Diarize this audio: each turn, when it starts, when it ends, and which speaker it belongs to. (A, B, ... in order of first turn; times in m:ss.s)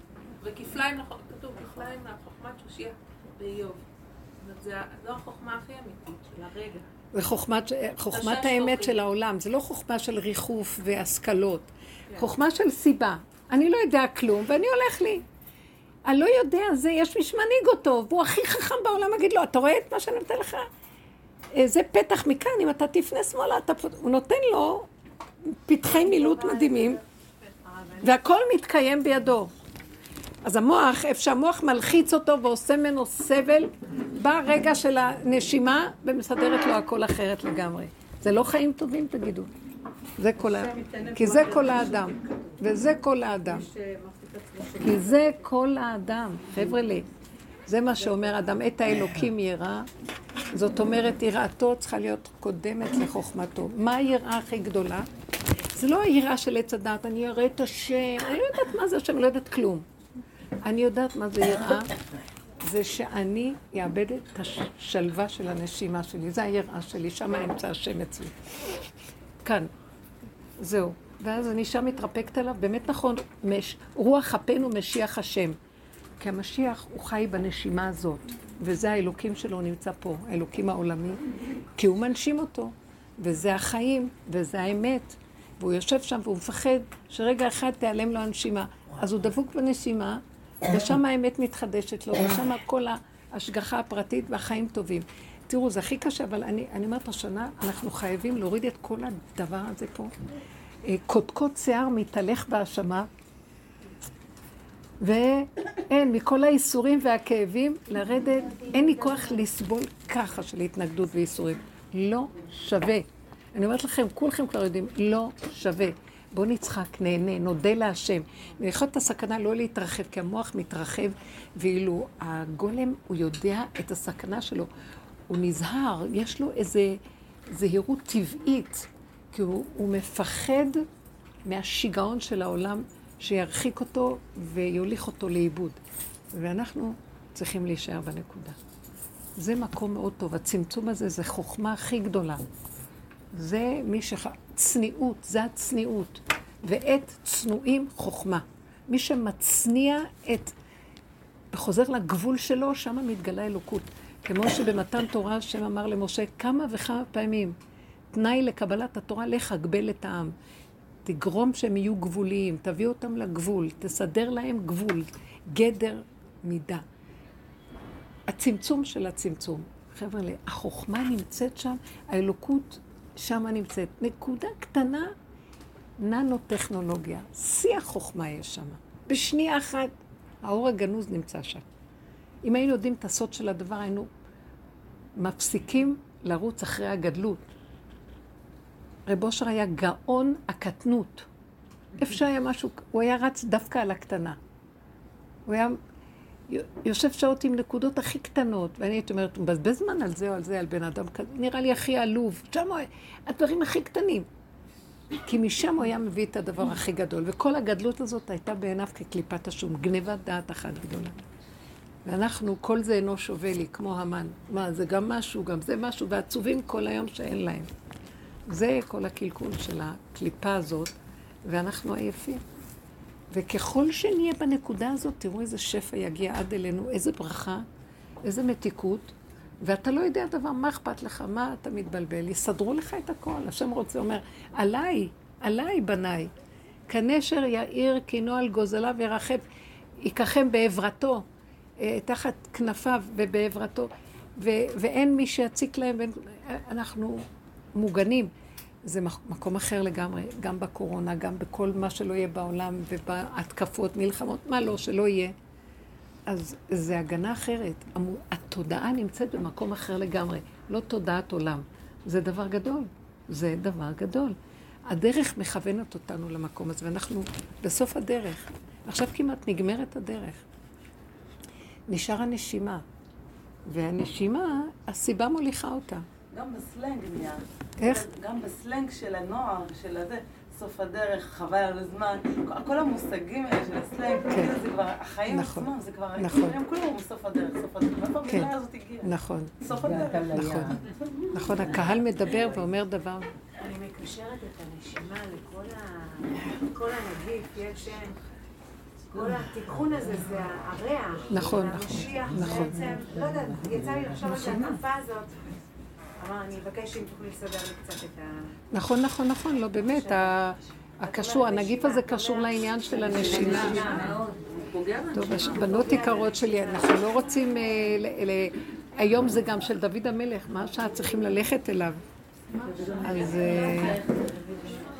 0:00.4-0:03.8 A
0:04.4-0:06.9 A
0:07.1-0:15.2 B
0:08.1-0:09.0 A
0:16.0-0:20.7 B
0:21.5-0:24.9 B
0:25.6-0:27.0 B
0:26.2-0:26.8 C
0:27.6-0:28.1 C
0:28.0-0:29.5 B
0:30.4-0:39.5 B
0:40.2-0:43.6 B
0:40.4-0:42.4 D
0:43.6-0:45.0 D
0:44.8-0:47.1 B
0:47.7-0:49.9 B
0:50.5-0:55.1 B
0:55.7-0:59.8 B
1:00.6-1:01.9 B
1:02.6-1:08.4 B
1:09.4-1:09.7 B
1:10.6-1:15.6 B
1:16.2-1:21.2 B
1:21.8-1:40.1 B
1:40.8-1:43.1 B
1:45.0-2:04.7 B
2:05.3-2:10.8 B
2:11.4-2:15.8 B
2:16.3-2:18.6 B
2:19.4-2:22.4 B
2:23.3-2:30.5 B
2:31.5-2:37.6 B
2:38.1-2:40.3 B
2:41.0-2:46.8 B
2:48.3-2:55.1 B
2:56.0-2:59.9 B
3:00.4-3:01.6 B
3:02.4-3:04.1 B
3:05.2-3:07.5 B
3:09.0-3:11.3 B
3:12.0-3:14.4 B
3:15.5-3:15.8 B
3:16.5-3:24.3 B
3:25.2-3:31.2 B
3:32.0-3:37.7 B
3:38.5-3:40.9 B
3:41.4-3:42.4 B
3:43.3-3:47.7 B
3:48.2-3:56.3 B
3:56.9-3:59.4 B
4:00.0-4:01.2 B
4:01.8-4:08.3 B
4:08.8-4:15.3 B
4:16.3-4:24.4 B
4:24.9-4:30.4 B
4:31.9-4:32.8 B
4:33.7-4:36.0 B
4:36.3-4:49.1 D
4:37.8-4:38.1 B
4:44.3-4:44.6 B
4:45.3-4:46.6 B
4:48.3-4:49.5 B
4:49.6-4:50.8 D
4:50.3-4:50.7 B
4:51.3-4:53.3 B
4:53.6-4:58.2 C
4:59.1-5:05.5 C
5:01.3-5:02.8 B
5:06.2-5:08.5 C
5:08.7-5:14.1 B
5:09.9-5:14.1 C
5:13.1-5:15.1 D
5:15.1-5:22.0 B
5:15.3-5:17.2 C
5:23.0-5:24.0 B